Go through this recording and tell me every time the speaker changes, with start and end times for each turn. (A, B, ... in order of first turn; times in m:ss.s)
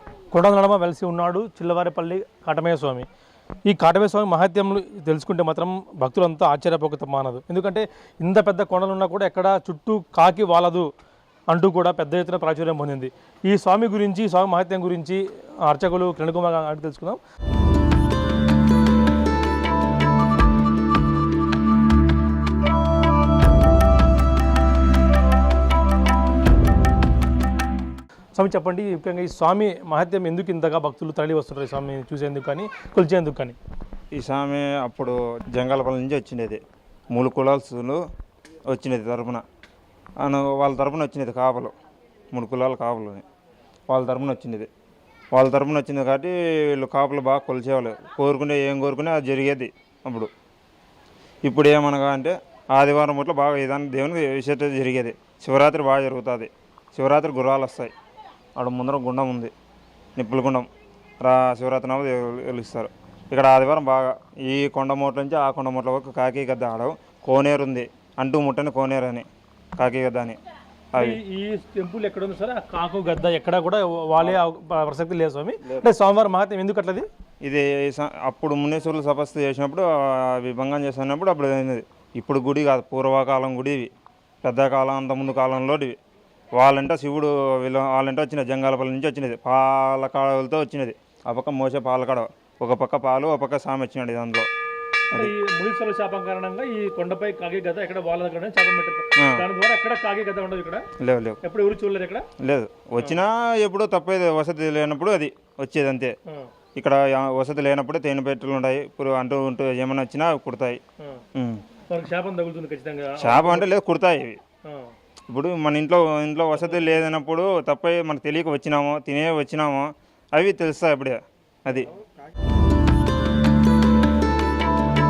0:00.3-0:03.1 A
0:03.6-0:10.9 A
0:11.5-0:17.2 A
0:28.4-0:33.6 A
0:34.1-0:36.6 B
0:37.1-0:38.0 B
0:38.7-0:39.4 B
0:40.2-0:41.7 B
0:42.3-0:43.2 B
0:43.9-0:44.7 B
0:45.3-0:50.3 B
0:51.4-0:57.9 B
0:58.6-0:59.5 B
1:00.2-1:00.7 B
1:01.2-1:10.4 B
1:10.9-1:11.2 B
1:11.0-1:17.1 A
1:17.4-1:23.9 B
1:24.4-1:26.0 B
1:26.6-1:34.5 B
1:35.1-1:40.9 A
1:39.2-1:39.4 B
1:41.0-1:41.4 B
1:41.4-1:42.3 A
1:42.4-1:46.1 B
1:46.8-1:50.8 B
1:51.3-1:51.6 B
1:51.9-1:53.7 A
1:53.2-1:54.4 B
1:54.6-1:54.9 A
1:55.3-2:01.9 B
1:56.6-1:57.0 A